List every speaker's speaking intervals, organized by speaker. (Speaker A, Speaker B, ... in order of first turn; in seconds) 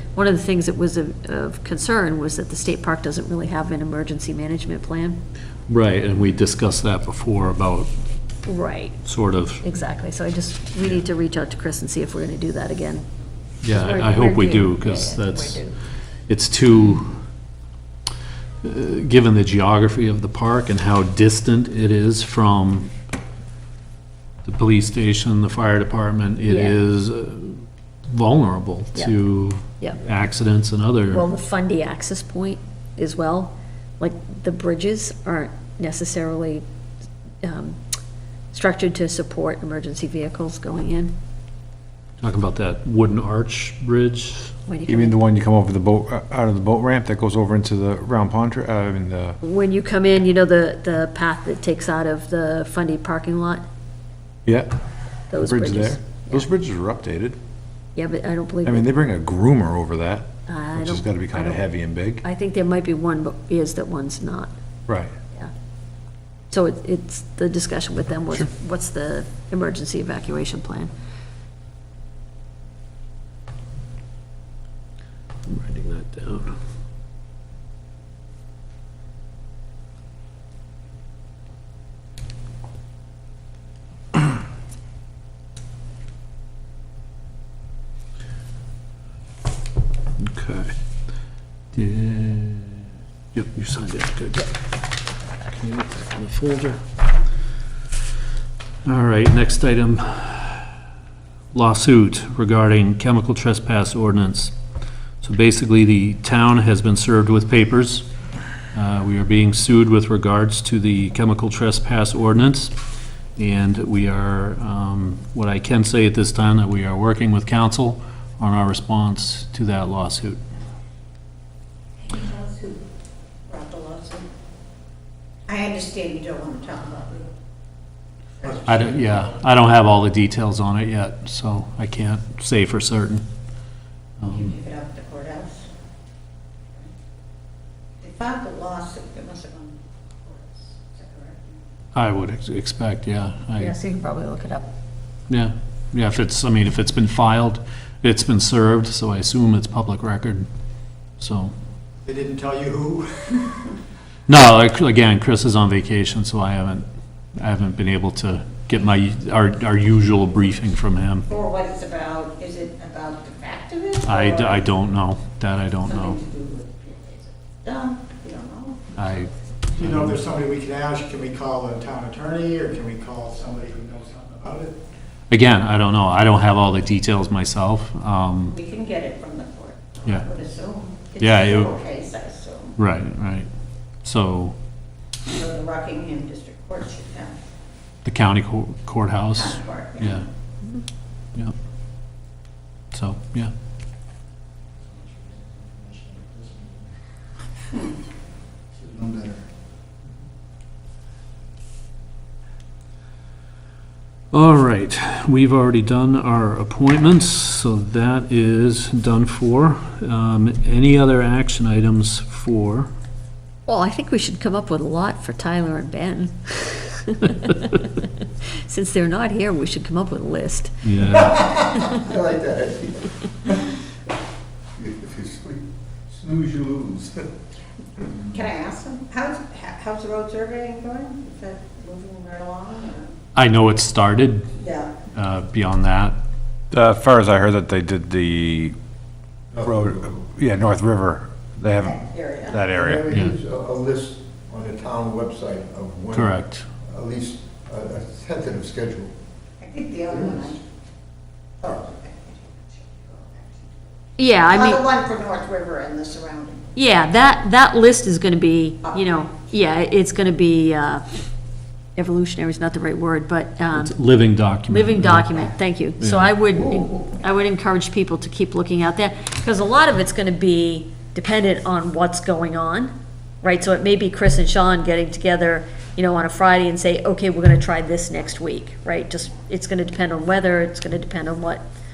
Speaker A: 0.1-5.2, 8.4-9.0, 9.6-13.0, 13.7-15.8, 26.5-26.8, 31.1-36.6, 37.4-37.8, 38.5-41.1, 44.7-45.1, 49.4-53.6, 55.3-56.5, 58.0-58.9, 60.5-61.6, 62.2-64.5, 66.5-70.9, 143.6-144.7, 213.7-222.0, 254.2-254.8, 256.7-261.0, 261.9-264.0, 264.7-281.6
Speaker B: 5.7-7.9, 9.0-9.6, 13.6-15.6, 16.3-17.2, 18.6-22.9, 24.4-31.2, 42.2-44.5, 75.5-76.5, 90.2-90.7, 91.7-94.5, 95.4-96.8, 98.8-100.8, 101.5-104.5, 105.2-108.0, 108.7-112.7, 113.4-120.4, 128.6-133.2, 134.2-134.5, 141.9-143.7, 145.3-150.5, 151.2-151.5, 154.3-156.8, 157.4-161.3, 164.0-166.2, 168.9-170.2, 175.3-178.6, 181.2-181.8, 182.8-183.5, 184.0-184.5, 188.0-190.2, 192.9-193.5, 204.3-212.9, 220.8-221.5, 233.3-234.5, 235.1-236.2, 246.1-246.7, 263.7-266.3
Speaker C: 44.9-49.4, 54.5-54.7, 55.3-57.4, 58.6-62.2, 64.9-65.1, 236.7-238.8, 239.6-243.1
Speaker D: 122.0-122.8, 123.5-124.3, 125.5-127.4, 134.2-135.7, 138.0-141.6, 161.3-164.7, 165.8-168.9, 178.5-182.8, 185.2-187.4, 189.3-190.2, 228.3-233.2, 234.6-234.9, 242.0-242.6, 249.6-250.6, 251.6-253.9, 254.5-256.7, 258.8-259.1
Speaker E: 128.5-128.8, 152.0-153.6, 169.8-174.8, 195.0-196.8, 198.7-199.4
Speaker F: 221.3-223.6, 224.8-227.3, 239.5-240.2, 242.7-249.1, 250.1-250.5